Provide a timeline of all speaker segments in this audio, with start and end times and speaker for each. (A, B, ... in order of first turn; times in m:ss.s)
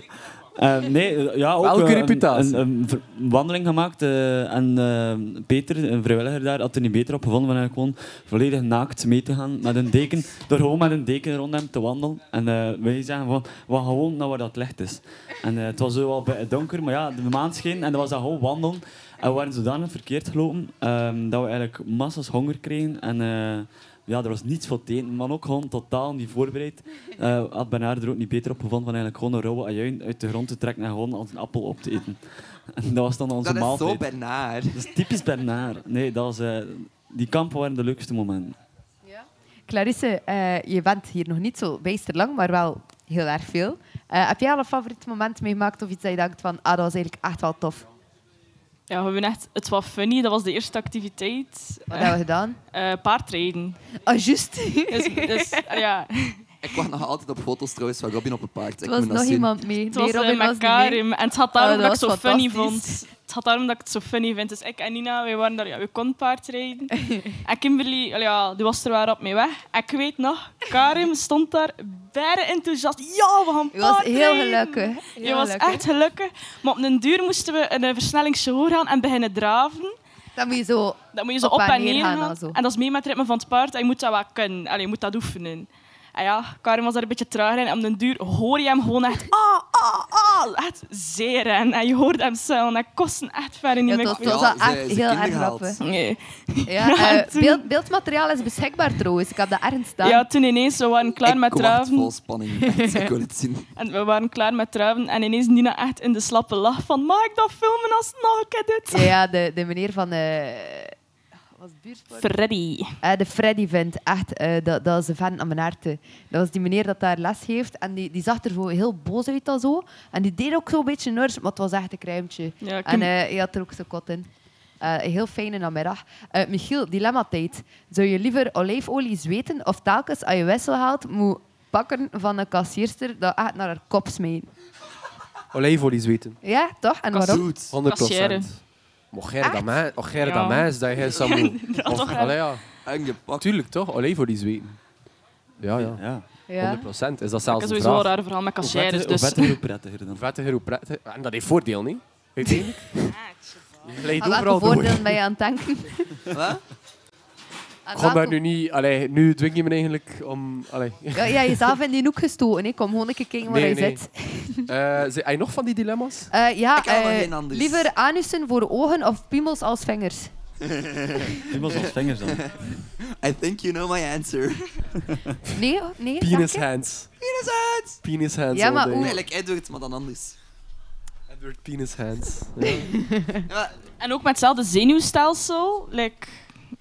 0:00.6-0:32.2 A
0:01.6-0:02.6 B
0:32.7-0:34.0 A
0:33.4-0:34.9 C
0:34.7-0:38.6 A
0:39.0-0:47.8 D
0:48.9-0:52.2 E
0:51.9-0:52.6 D
0:52.7-0:53.8 E
0:54.0-0:55.7 D
0:54.9-0:56.4 E
0:56.6-0:59.5 C
0:58.8-1:03.0 D
0:59.9-1:20.0 E
1:13.7-1:15.8 D
1:20.4-1:22.6 D
1:21.1-1:34.4 E
1:33.8-1:35.8 D
1:34.0-1:35.8 C
1:35.8-1:37.6 E
1:36.7-1:40.2 D
1:40.0-1:42.1 E
1:41.2-1:43.7 C
1:42.7-1:43.0 D
1:43.8-1:49.1 E
1:48.9-1:50.9 D
1:51.5-1:52.3 D
1:52.2-1:52.9 E
1:53.0-2:04.3 D
2:02.6-2:03.1 E
2:04.8-2:14.5 D
2:15.5-2:16.4 B
2:16.4-2:17.5 D
2:17.2-2:17.7 C
2:17.7-2:22.6 B
2:17.8-2:18.5 E
2:19.4-2:19.7 D
2:20.2-2:22.5 E
2:22.8-2:23.5 C
2:23.4-2:24.8 B
2:25.6-2:26.0 B
2:25.8-2:26.2 A
2:26.5-2:26.8 D
2:26.6-2:28.1 B
2:27.5-2:29.6 E
2:28.6-2:30.2 A
2:30.1-2:33.2 B
2:33.1-2:33.6 E
2:33.8-2:35.2 B
2:34.2-2:36.2 D
2:36.3-2:36.6 C
2:37.8-2:38.4 D
2:37.9-2:41.8 B
2:41.1-2:44.7 D
2:43.4-2:44.0 B
2:44.7-2:46.3 B
2:46.3-2:50.3 D
2:46.8-2:47.9 C
2:50.6-2:54.8 C
2:51.5-2:52.4 A
2:55.5-2:56.6 D
2:56.2-2:57.1 B
2:57.2-2:58.0 C
2:58.0-2:59.2 B
2:58.5-2:59.2 D
2:59.0-3:00.4 C
3:01.3-3:02.9 B
3:02.7-3:03.4 D
3:03.5-3:03.7 C
3:04.0-3:06.4 E